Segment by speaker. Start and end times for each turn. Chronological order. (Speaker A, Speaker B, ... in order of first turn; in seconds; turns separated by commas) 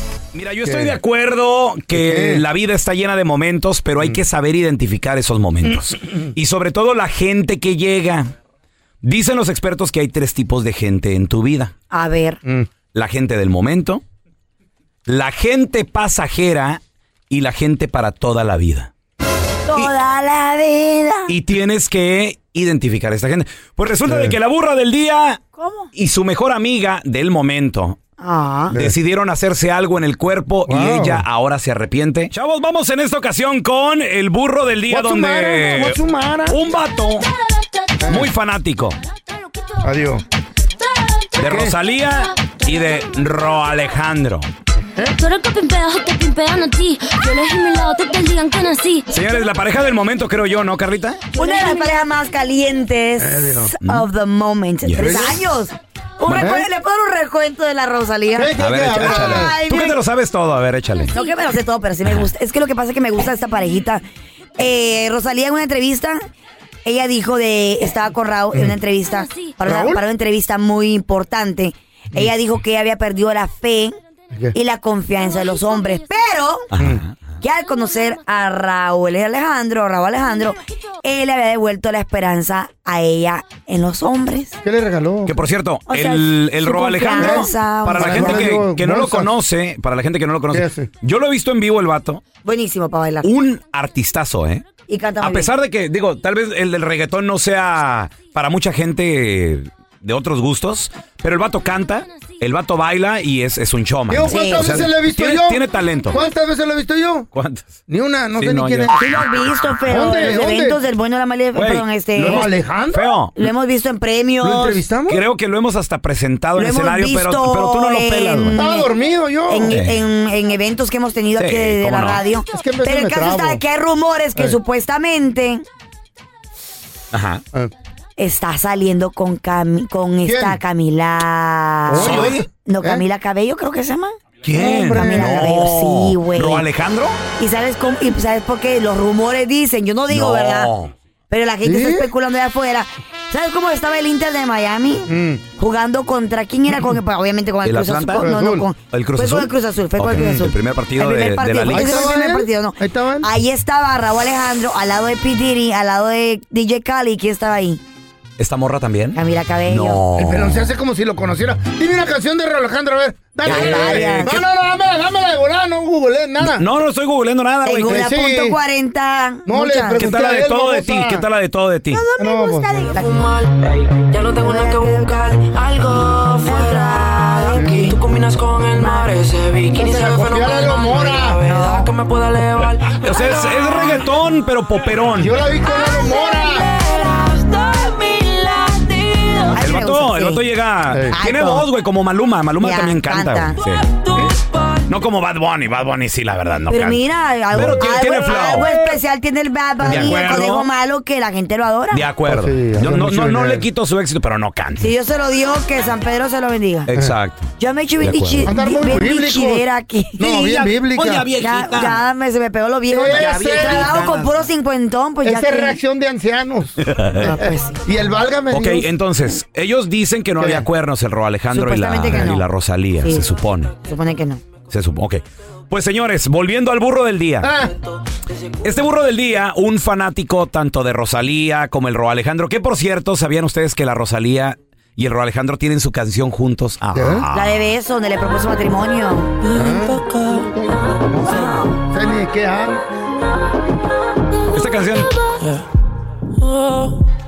Speaker A: 0.3-8.3, Speaker B: 0.6-1.0, Speaker B: 1.9-2.4, Speaker A: 9.0-11.7, Speaker C: 11.9-12.4, Speaker B: 12.4-12.7, Speaker A: 12.9-14.0, Speaker A: 15.1-18.9, Speaker C: 19.7-21.3, Speaker A: 21.3-25.4, Speaker B: 24.1-24.4, Speaker C: 25.6-25.9, Speaker A: 25.9-28.0, Speaker C: 28.2-28.8, Speaker A: 28.7-37.3, Speaker B: 30.6-31.2, Speaker B: 34.9-36.6, Speaker B: 38.0-38.3, Speaker A: 38.1-39.0, Speaker B: 39.8-40.2, Speaker A: 41.4-44.5, Speaker B: 41.4-41.8, Speaker B: 44.9-45.2, Speaker D: 45.2-49.5, Speaker A: 49.1-51.2, Speaker D: 51.3-52.1, Speaker C: 51.3-60.0, Speaker B: 53.2-53.7, Speaker A: 53.8-54.1, Speaker A: 54.8-55.4, Speaker B: 55.0-55.4, Speaker A: 56.2-56.5, Speaker B: 56.4-56.7, Speaker B: 58.3-59.5, Speaker A: 58.6-61.1, Speaker C: 61.1-64.0, Speaker C: 64.6-66.2, Speaker C: 66.8-74.0, Speaker D: 69.1-69.5, Speaker B: 69.6-70.0, Speaker C: 74.5-76.7, Speaker D: 75.2-76.6, Speaker A: 76.7-77.1, Speaker B: 76.8-77.0, Speaker C: 77.4-84.5, Speaker D: 77.6-78.2, Speaker D: 80.3-80.5, Speaker B: 84.6-85.3, Speaker A: 85.2-92.2, Speaker C: 85.9-88.5, Speaker B: 87.2-89.3, Speaker B: 90.5-90.9, Speaker C: 92.4-93.3, Speaker A: 93.2-94.6, Speaker C: 94.9-95.5, Speaker A: 95.2-106.2, Speaker D: 102.1-102.4, Speaker B: 104.1-107.3, Speaker C: 104.3-104.9, Speaker A: 107.3-107.8, Speaker B: 107.9-108.9, Speaker A: 108.3-109.7, Speaker C: 108.9-112.5, Speaker B: 109.9-110.8, Speaker A: 111.5-113.5, Speaker B: 112.2-113.0, Speaker C: 113.3-114.8, Speaker B: 114.4-115.2, Speaker A: 115.1-118.6, Speaker C: 116.5-118.9, Speaker B: 118.5-119.8, Speaker C: 119.5-125.6, Speaker A: 119.7-120.0, Speaker A: 121.4-122.2, Speaker B: 122.5-123.6, Speaker A: 127.1-127.4, Speaker C: 128.2-136.6, Speaker B: 130.2-130.6, Speaker B: 131.9-133.0, Speaker A: 132.0-132.4, Speaker A: 134.4-137.2, Speaker B: 134.5-135.5, Speaker C: 137.3-140.7, Speaker A: 140.1-140.9, Speaker C: 141.3-157.8, Speaker B: 141.6-142.1, Speaker B: 145.1-145.4, Speaker A: 147.6-148.2, Speaker B: 148.2-148.7, Speaker A: 148.8-152.1, Speaker B: 150.1-150.4, Speaker B: 151.7-153.3, Speaker A: 158.4-160.6, Speaker C: 159.1-160.0, Speaker B: 160.2-166.7, Speaker C: 163.4-164.4, Speaker A: 163.4-164.4, Speaker A: 166.4-168.0, Speaker C: 167.6-170.1, Speaker B: 167.9-168.6, Speaker B: 169.4-171.2, Speaker A: 170.0-172.1, Speaker C: 171.9-173.1, Speaker B: 172.2-172.7, Speaker E: 172.8-184.1, Speaker C: 174.4-175.4, Speaker C: 176.4-177.9, Speaker B: 177.5-177.8, Speaker C: 178.8-179.1, Speaker B: 179.7-181.6, Speaker C: 181.5-181.8, Speaker A: 183.0-185.4, Speaker B: 185.1-186.7, Speaker E: 185.4-189.6, Speaker C: 189.5-190.5, Speaker A: 189.5-193.8, Speaker B: 190.9-191.1, Speaker C: 191.1-191.7, Speaker C: 192.6-193.6, Speaker E: 193.6-195.0, Speaker A: 194.9-199.0, Speaker C: 196.7-202.1, Speaker B: 199.8-200.3, Speaker A: 199.8-200.7, Speaker A: 201.9-204.9, Speaker B: 202.3-203.7, Speaker C: 204.8-206.9, Speaker A: 206.8-208.5, Speaker C: 207.6-210.3, Speaker B: 208.4-209.7, Speaker B: 210.2-211.3, Speaker A: 210.2-212.0, Speaker C: 211.4-215.8, Speaker B: 212.9-214.0, Speaker A: 213.1-214.4, Speaker B: 215.2-218.9, Speaker A: 216.8-217.3, Speaker C: 217.2-217.8, Speaker A: 218.5-223.7, Speaker B: 220.4-220.7, Speaker C: 221.5-222.5, Speaker B: 222.1-222.3, Speaker C: 223.0-223.3, Speaker C: 223.8-224.4, Speaker A: 224.7-227.5, Speaker B: 227.4-227.7, Speaker A: 228.6-237.7, Speaker B: 236.9-237.3, Speaker C: 237.3-239.3, Speaker E: 239.4-240.5, Speaker B: 239.5-242.8, Speaker C: 241.3-241.7, Speaker A: 244.5-245.1, Speaker E: 246.4-246.9